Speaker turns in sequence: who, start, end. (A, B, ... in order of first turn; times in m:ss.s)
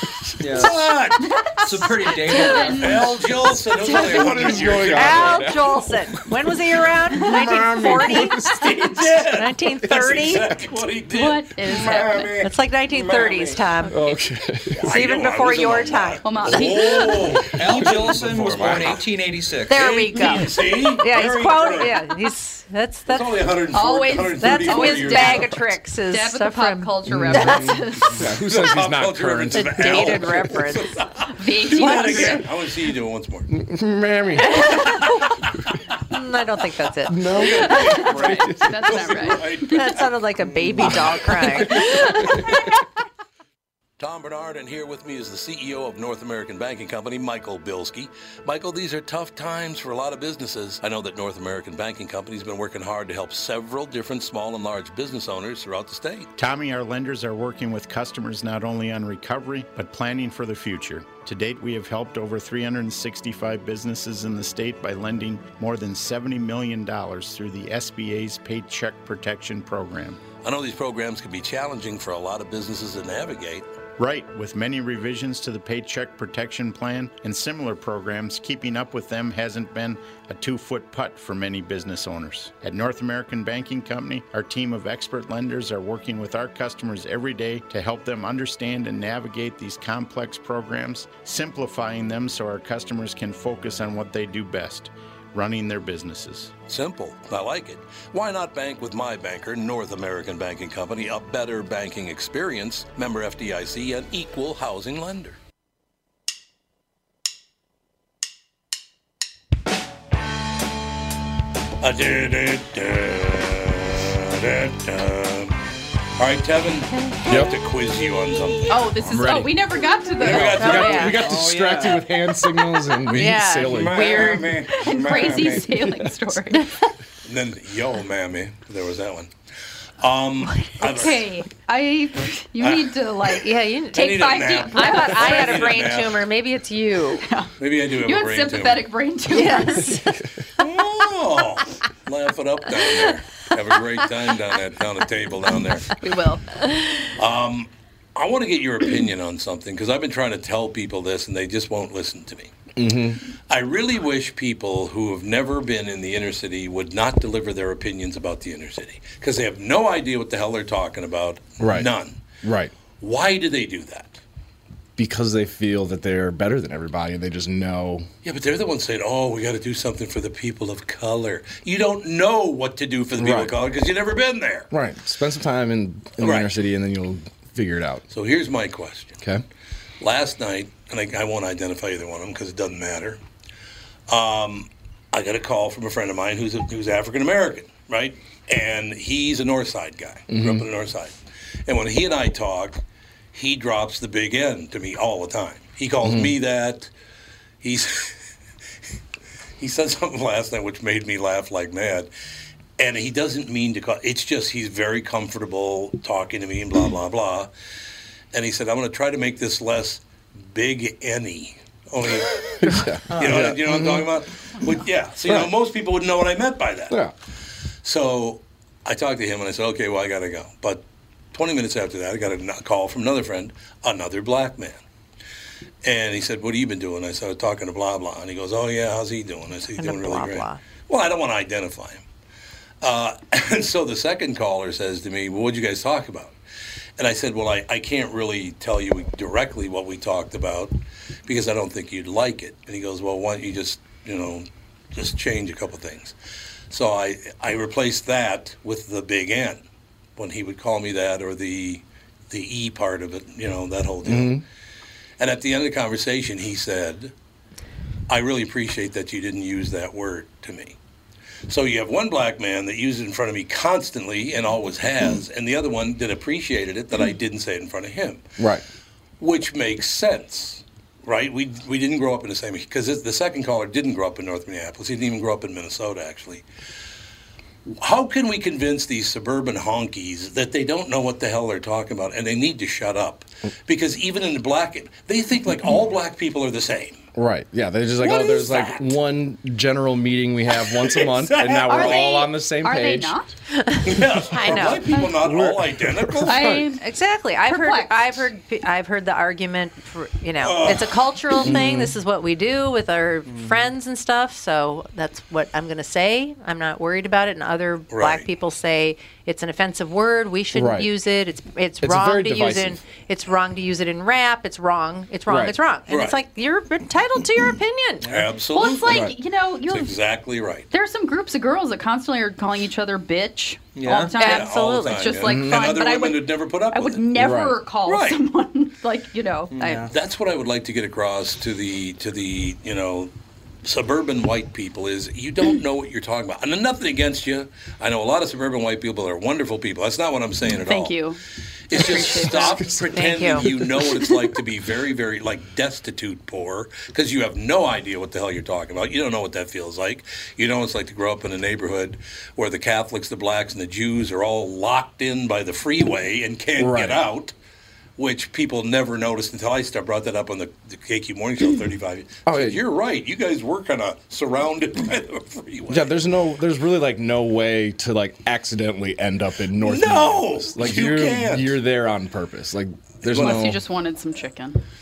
0:00.4-0:00.8 A
0:00.5-0:01.3 B
0:01.2-0:03.2 C
0:01.6-0:03.2 A
0:01.8-0:02.7 D
0:02.7-0:05.5 B
0:03.7-0:08.6 D
0:03.8-0:09.0 E
0:03.9-0:04.7 C
0:07.8-0:13.6 B
0:09.2-0:10.6 D
0:11.1-0:12.4 C
0:12.4-0:14.1 D
0:13.8-0:14.2 C
0:13.9-0:14.9 E
0:14.7-0:19.0 B
0:14.8-0:17.1 D
0:16.2-0:17.4 C
0:17.5-0:20.0 A
0:17.7-0:19.0 E
0:19.7-0:23.5 D
0:19.7-0:22.1 B
0:23.1-0:25.5 B
0:23.7-0:28.2 C
0:24.4-0:27.8 D
0:27.1-0:30.5 E
0:28.4-0:33.5 B
0:29.5-0:30.9 D
0:31.4-0:32.5 C
0:31.8-0:32.4 D
0:33.5-0:34.8 E
0:34.7-0:35.0 B
0:36.1-0:37.3 D
0:37.1-0:39.0 E
0:37.3-0:40.1 B
0:37.4-0:39.8 C
0:39.7-0:42.6 D
0:40.8-0:41.7 B
0:40.8-0:42.5 E
0:41.7-0:42.4 C
0:44.0-0:56.3 B
0:56.4-1:10.2 F
1:10.4-1:13.7 B
1:14.0-1:36.5 F
1:36.7-1:45.4 B
1:51.8-1:55.6 B
1:56.2-1:58.8 B
1:56.9-1:57.2 D
1:57.3-1:57.5 E
1:58.7-2:01.2 C
1:59.0-1:59.6 E
2:00.2-2:01.2 B
2:00.2-2:04.3 E
2:00.3-2:01.3 D
2:01.1-2:02.1 A
2:03.1-2:04.6 D
2:03.1-2:05.7 B
2:04.5-2:06.9 C
2:05.7-2:06.1 E
2:07.2-2:09.3 B
2:10.0-2:11.3 B
2:10.8-2:15.8 C
2:10.8-2:11.2 D
2:12.6-2:13.4 B
2:13.4-2:17.3 D
2:13.9-2:16.2 B
2:17.2-2:20.1 C
2:17.6-2:18.8 B
2:19.3-2:20.2 D
2:20.6-2:25.9 B
2:26.0-2:27.1 C
2:27.2-2:32.5 B
2:32.8-2:33.2 E
2:33.5-2:42.2 B
2:41.6-2:41.9 E
2:42.4-2:42.7 E
2:43.0-2:44.2 B
2:45.0-2:48.1 E
2:48.2-2:54.7 B
2:53.2-2:53.6 E
2:54.7-2:58.0 E
2:56.2-2:56.5 B
2:58.1-2:59.2 B
3:00.0-3:03.2 B
3:04.1-3:11.2 B
3:10.3-3:10.7 E
3:11.7-3:16.9 B
3:16.0-3:16.4 E
3:17.6-3:18.2 B
3:19.6-3:22.1 B
3:22.8-3:27.5 B
3:28.3-3:37.0 B
3:32.5-3:34.2 E
3:35.3-3:35.5 E
3:37.8-3:44.8 B
3:45.8-3:52.0 B
3:49.8-3:50.6 D
3:52.8-3:56.4 B
3:57.0-4:06.2 B
4:06.7-4:09.6 B
4:10.2-4:14.4 B
4:14.0-4:14.4 E
4:15.2-4:17.1 B
4:18.1-4:20.8 B
4:21.5-4:28.3 B
4:28.4-4:28.6 E
4:29.2-4:36.4 B
4:37.7-4:47.0 B
4:47.1-4:53.2 E
4:48.0-4:48.9 B
4:50.6-4:52.1 B
4:51.7-4:53.3 C
4:53.6-4:54.9 D
4:53.8-4:56.6 B
4:55.0-4:56.7 E
4:56.3-4:56.8 C
4:56.8-5:18.1 D
4:57.4-4:58.3 C
5:00.4-5:01.0 B
5:01.4-5:02.0 E
5:03.3-5:03.7 A
5:07.9-5:08.3 B
5:10.5-5:10.9 E
5:11.8-5:12.8 E
5:15.3-5:15.6 E
5:15.9-5:16.2 B
5:18.0-5:18.3 A
5:18.1-5:19.1 B
5:18.5-5:20.0 C
5:18.9-5:19.2 E
5:19.7-5:20.7 B
5:20.7-5:29.9 C
5:23.8-5:24.2 A
5:24.2-5:25.1 D
5:24.2-5:27.1 B
5:25.2-5:25.8 E
5:27.2-5:27.6 E
5:27.8-5:28.2 B
5:29.5-5:29.9 A
5:29.9-5:33.1 B
5:33.6-5:41.0 B
5:40.5-5:41.2 C
5:41.7-5:57.4 B
5:41.7-5:42.7 C
5:42.3-5:43.5 E
5:42.9-5:43.5 D
5:56.6-5:57.0 E
5:58.0-6:05.9 B
6:02.3-6:02.6 E
6:05.7-6:13.6 E
6:09.6-6:11.6 B
6:13.0-6:13.5 B
6:13.2-6:14.6 C